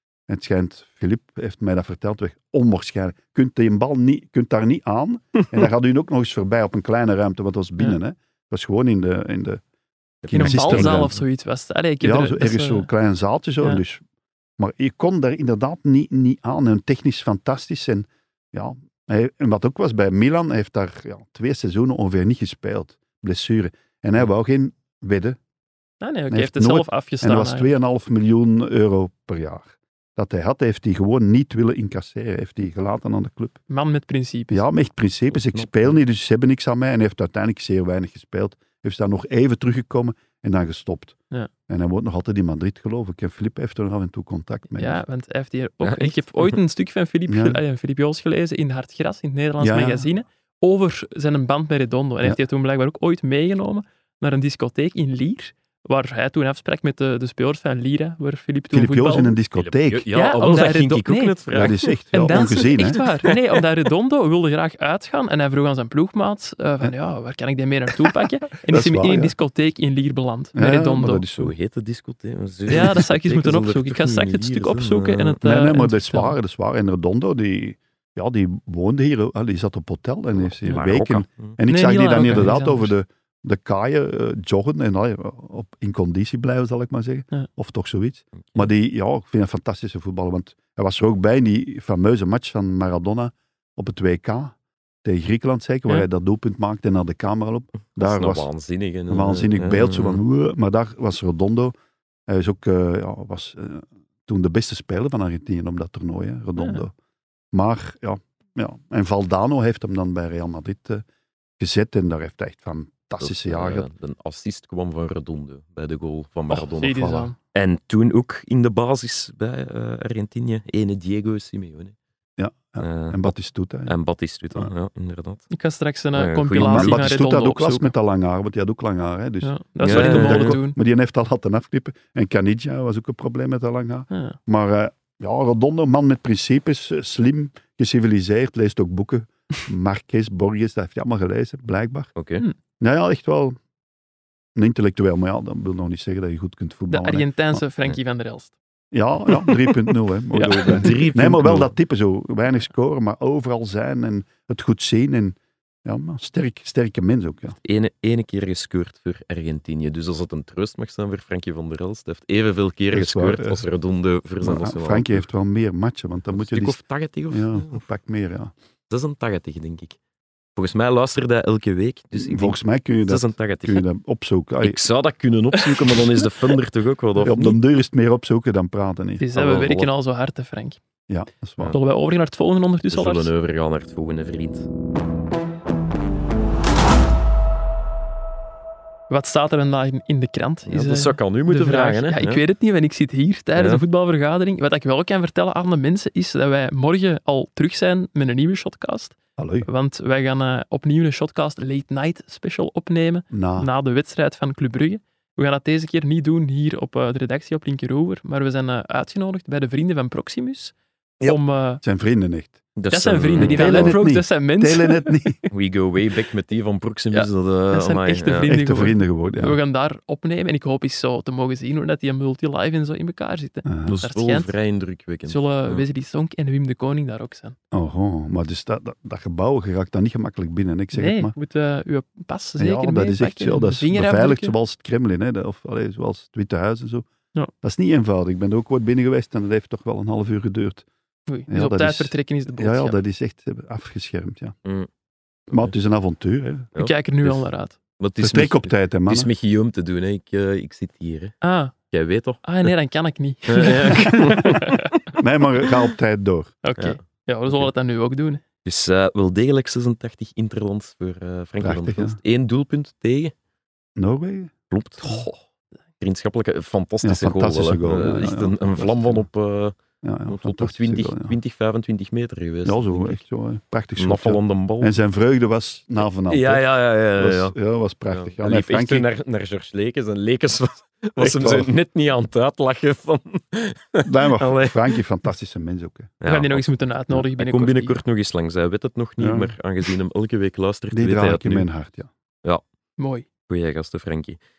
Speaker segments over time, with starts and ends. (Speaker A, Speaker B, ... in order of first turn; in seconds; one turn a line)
Speaker A: 0.3-9.6
Speaker A: 10.2-11.2
Speaker B: 10.2-11.2
Speaker C: 10.3-12.9
Speaker A: 12.0-14.0
Speaker A: 14.6-25.4
Speaker C: 26.0-27.7
Speaker A: 26.3-33.6
Speaker C: 33.7-34.6
Speaker A: 34.5-41.1
Speaker B: 35.3-35.8
Speaker A: 41.7-45.0
Speaker C: 44.7-59.4
Speaker B: 45.8-46.5
Speaker A: 47.3-47.6
Speaker A: 49.6-50.0
Speaker A: 58.7-60.0
Speaker B: 59.6-63.3
Speaker C: 60.1-61.4
Speaker A: 61.5-63.0
Speaker C: 62.1-71.3
Speaker A: 68.7-69.3
Speaker A: 70.5-71.5
Speaker B: 71.3-75.4
Speaker C: 72.7-76.3
Speaker A: 75.4-98.5
Speaker B: 80.5-81.6
Speaker C: 81.7-82.9
Speaker B: 88.4-88.7
Speaker B: 98.0-100.2
Speaker A: 99.1-101.7
Speaker A: 102.3-106.9
Speaker C: 106.6-106.8
Speaker A: 107.5-111.0
Speaker A: 111.6-113.9
Speaker B: 113.2-121.9
Speaker C: 116.5-117.3
Speaker A: 116.9-117.3
Speaker A: 122.4-123.9
Speaker B: 122.8-123.3
Speaker B: 123.8-125.4
Speaker C: 125.5-127.9
Speaker B: 126.1-127.1
Speaker A: 126.6-142.1
Speaker C: 129.4-130.8
Speaker B: 129.8-130.6
Speaker C: 134.1-134.4
Speaker B: 142.2-142.4
Speaker A: 142.8-143.6
Speaker A: 144.5-147.6
Speaker C: 146.9-148.5
Speaker A: 148.9-157.6
Speaker C: 149.3-151.0
Speaker B: 150.7-151.8
Speaker B: 157.6-165.2
Speaker A: 162.9-163.6
Speaker A: 164.4-166.8
Speaker B: 166.3-167.8
Speaker A: 167.3-168.5
Speaker B: 168.9-170.0
Speaker B: 170.6-173.8
Speaker A: 172.1-174.8
Speaker B: 174.6-177.6
Speaker C: 175.5-176.6
Speaker A: 177.2-179.3
Speaker C: 179.2-180.8
Speaker B: 179.3-179.9
Speaker A: 181.1-181.7
Speaker C: 181.7-183.3
Speaker B: 182.9-184.7
Speaker C: 189.1-211.8
Speaker B: 190.7-192.4
Speaker B: 193.6-193.8
Speaker A: 199.4-199.7
Speaker A: 203.3-203.7
Speaker A: 211.8-212.6
Speaker B: 212.8-213.9
Speaker C: 212.9-215.5
Speaker A: 213.4-215.4
Speaker B: 215.5-218.5
Speaker C: 217.1-224.5
Speaker A: 218.5-219.6
Speaker A: 223.7-224.0
Speaker B: 223.8-225.8
Speaker C: 225.2-227.6
Speaker A: 227.7-231.3
Speaker C: 230.9-234.6
Speaker A: 232.6-237.1
Speaker A: 237.6-240.9
Speaker C: 241.3-243.0
Speaker A: 241.5-244.6
Speaker A: 245.5-246.7
Speaker B: 246.7-247.5
Speaker C: 246.8-247.8
Speaker B: 248.0-251.3
Speaker A: 248.2-249.3
Speaker C: 251.4-251.7
Speaker B: 251.9-252.7
Speaker C: 252.4-254.9
Speaker B: 253.5-254.9
Speaker A: 255.2-256.5
Speaker C: 256.6-258.4
Speaker B: 258.6-263.3
Speaker A: 261.6-262.2
Speaker A: 263.9-264.5
Speaker B: 264.7-265.3
Speaker B: 266.0-273.2
Speaker A: 267.0-269.2
Speaker A: 270.0-271.4
Speaker A: 272.6-276.6
Speaker B: 274.0-275.0
Speaker B: 276.2-277.5
Speaker A: 277.1-279.1
Speaker B: 278.1-285.0
Speaker A: 281.2-281.7
Speaker A: 284.0-286.1
Speaker B: 286.2-291.7
Speaker C: 286.2-288.0
Speaker A: 289.2-289.6
Speaker A: 290.9-292.1
Speaker C: 293.0-293.2
Speaker B: 293.5-294.4